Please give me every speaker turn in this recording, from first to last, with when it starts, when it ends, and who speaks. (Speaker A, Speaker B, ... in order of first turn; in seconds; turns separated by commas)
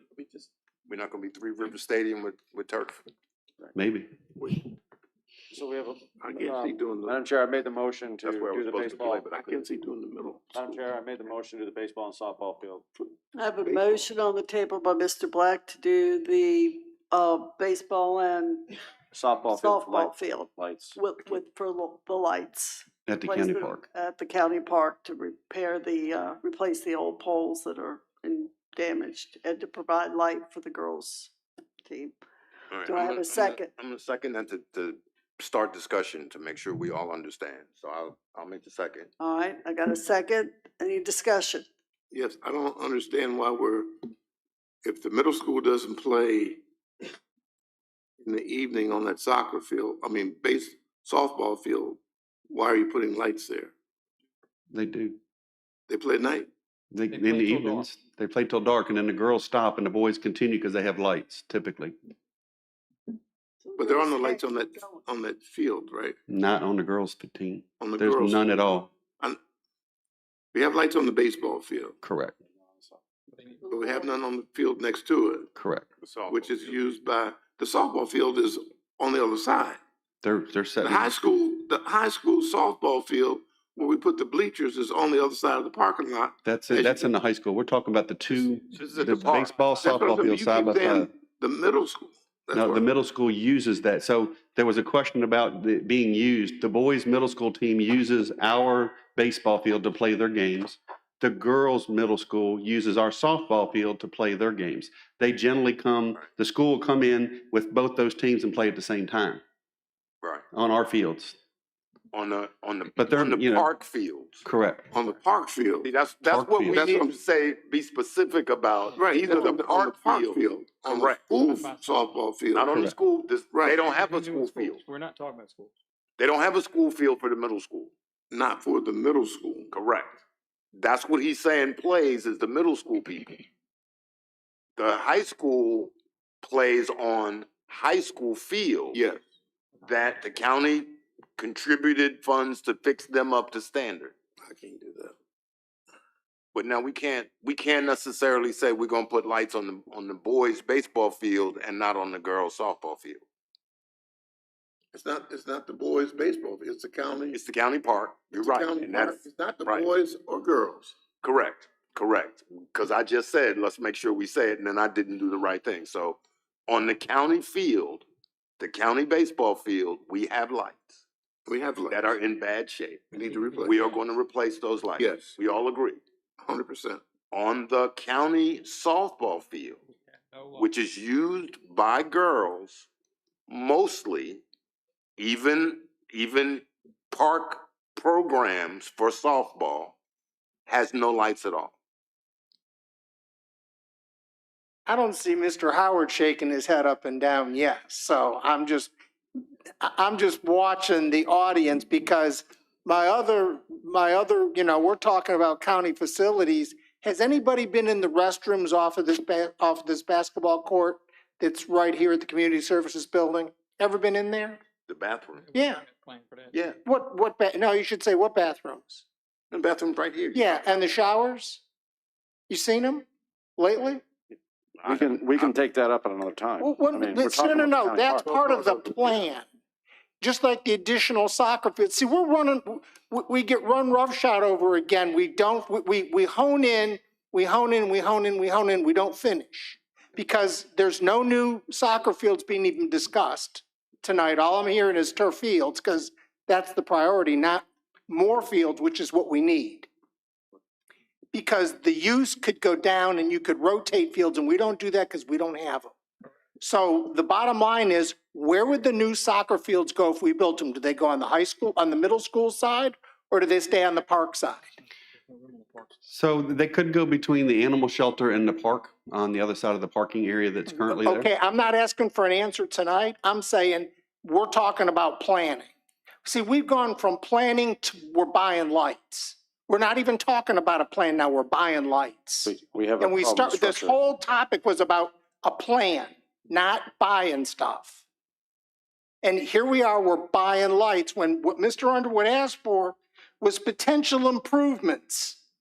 Speaker A: 0.9-3.0, Speaker B: 3.8-4.1, Speaker C: 5.5-9.3, Speaker D: 6.2-7.2, Speaker A: 8.2-9.7, Speaker D: 9.3-10.8, Speaker C: 10.5-12.8, Speaker E: 13.3-18.8, Speaker D: 13.7-14.0, Speaker C: 19.1-21.0, Speaker E: 19.5-31.3, Speaker B: 23.1-23.8, Speaker E: 31.9-32.2, Speaker A: 32.7-39.1, Speaker E: 32.8-33.7, Speaker E: 39.2-41.7, Speaker D: 42.1-43.9, Speaker D: 44.8-46.6, Speaker D: 48.2-53.7, Speaker B: 54.7-55.2, Speaker D: 55.9-56.5, Speaker B: 56.9-62.0, Speaker F: 57.1-57.9, Speaker E: 63.6-65.0, Speaker D: 63.8-66.2, Speaker B: 66.3-68.9, Speaker D: 67.8-68.5, Speaker D: 70.5-72.0, Speaker B: 72.0-72.4, Speaker F: 73.3-73.8, Speaker D: 73.7-75.5, Speaker B: 75.6-75.9, Speaker A: 76.0-76.8, Speaker D: 76.3-79.8, Speaker B: 80.2-81.1, Speaker D: 80.8-87.1, Speaker B: 86.5-91.1, Speaker F: 88.4-90.8, Speaker D: 88.8-92.9, Speaker B: 92.5-109.4, Speaker B: 110.5-111.4, Speaker A: 112.1-114.5, Speaker B: 113.0-113.7, Speaker B: 114.4-114.9, Speaker D: 114.9-115.9, Speaker A: 115.8-121.3, Speaker B: 116.3-116.9, Speaker D: 116.7-117.2, Speaker F: 118.8-119.6, Speaker D: 119.0-122.8, Speaker F: 121.1-122.3, Speaker A: 122.5-124.8, Speaker D: 123.5-123.9, Speaker F: 123.7-125.8, Speaker A: 126.2-127.9, Speaker D: 128.3-129.7, Speaker A: 129.7-130.2, Speaker A: 130.7-133.4, Speaker A: 134.8-135.9, Speaker A: 136.4-139.0, Speaker D: 138.9-139.2, Speaker A: 139.8-144.1, Speaker D: 144.4-145.2, Speaker A: 146.5-153.2, Speaker D: 154.9-157.4, Speaker A: 157.3-159.9, Speaker D: 158.3-161.0, Speaker A: 161.2-168.1, Speaker A: 168.6-171.0, Speaker D: 171.5-172.2, Speaker A: 171.9-176.0, Speaker D: 173.1-173.9, Speaker F: 173.2-174.1, Speaker D: 175.0-175.4, Speaker D: 176.4-177.0, Speaker A: 177.3-179.8, Speaker F: 179.9-180.8, Speaker A: 180.6-182.9, Speaker A: 183.5-184.4, Speaker A: 185.2-190.0, Speaker A: 190.7-191.7, Speaker G: 194.9-198.9, Speaker G: 199.8-214.6, Speaker A: 214.9-215.5, Speaker F: 215.3-216.6, Speaker G: 215.5-215.8, Speaker A: 216.5-216.8, Speaker G: 216.8-219.1, Speaker A: 219.5-220.4, Speaker G: 220.3-221.6, Speaker G: 222.5-223.1, Speaker G: 223.6-224.0, Speaker A: 224.8-225.6, Speaker C: 224.8-228.5, Speaker G: 226.6-229.5, Speaker G: 230.2-249.9, Speaker G: 251.3-255.9, Speaker G: 256.6-264.7, Speaker F: 265.3-265.9, Speaker B: 266.1-271.3, Speaker G: 270.7-275.7, Speaker G: 276.2-288.0, Speaker C: 282.5-284.0, Speaker G: 289.2-295.4